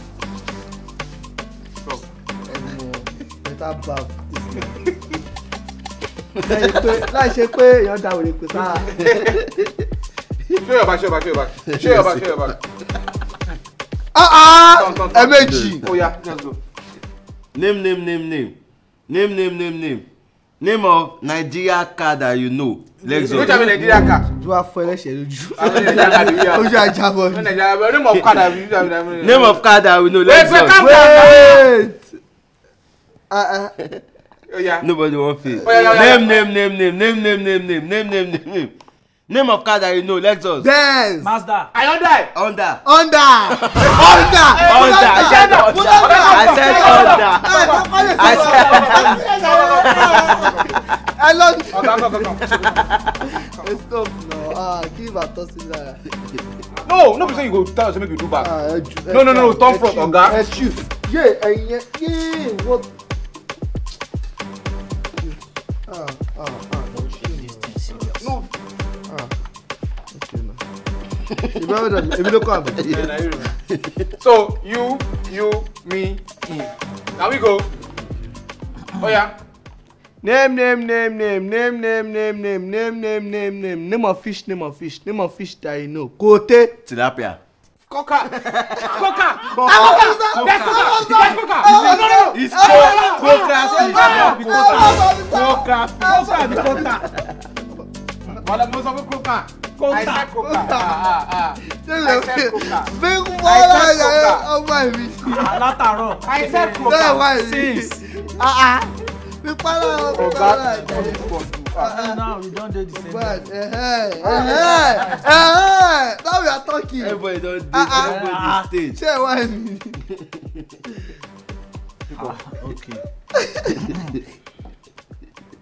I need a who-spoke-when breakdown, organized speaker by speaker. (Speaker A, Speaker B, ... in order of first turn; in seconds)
Speaker A: 1.8-2.1, 8.9-9.4, 10.6-12.6, 14.7-16.6, 23.3-24.2, 25.6-29.6, 30.2-31.6, 34.5-34.9, 35.6-36.5, 41.7-42.3, 43.8-50.8, 51.7-52.9, 53.4-53.6, 56.8-58.5, 59.1-60.4, 68.2-68.5, 72.8-73.5, 74.2-77.7, 79.0-79.3, 87.9-96.1, 98.3-104.5, 106.2-107.2, 110.1-111.9, 122.1-122.4
Speaker B: 2.4-4.9, 6.4-8.9, 14.1-15.8, 23.1-27.5, 30.8-32.1, 33.3-33.7, 35.6-36.3, 40.6-41.3, 42.8-52.3, 53.3-56.0, 58.4-62.9, 65.2-67.6, 69.1-69.3, 70.1-70.6, 71.5-73.0, 80.2-86.8, 89.5-97.0, 100.4-101.1, 101.7-105.7, 106.8-112.2, 112.9-118.3, 118.9-120.0, 123.3-123.9
Speaker C: 6.4-6.7, 9.0-9.7, 11.7-12.5, 15.3-15.9, 17.5-18.6, 19.1-20.1, 20.6-23.7, 28.1-28.4, 29.2-31.6, 34.8-38.7, 39.3-40.7, 42.3-42.8, 43.5-51.0, 52.4-53.3, 72.7-73.1, 73.7-74.1, 86.8-87.4, 88.3-95.7, 96.6-97.2, 117.0-119.0, 120.1-120.8
Speaker D: 41.2-41.7, 48.4-49.2, 66.9-68.3, 93.6-94.9, 96.0-97.1, 99.8-100.3, 105.3-108.2, 110.4-113.5, 114.2-115.3, 117.9-118.7, 122.1-123.0, 123.8-124.2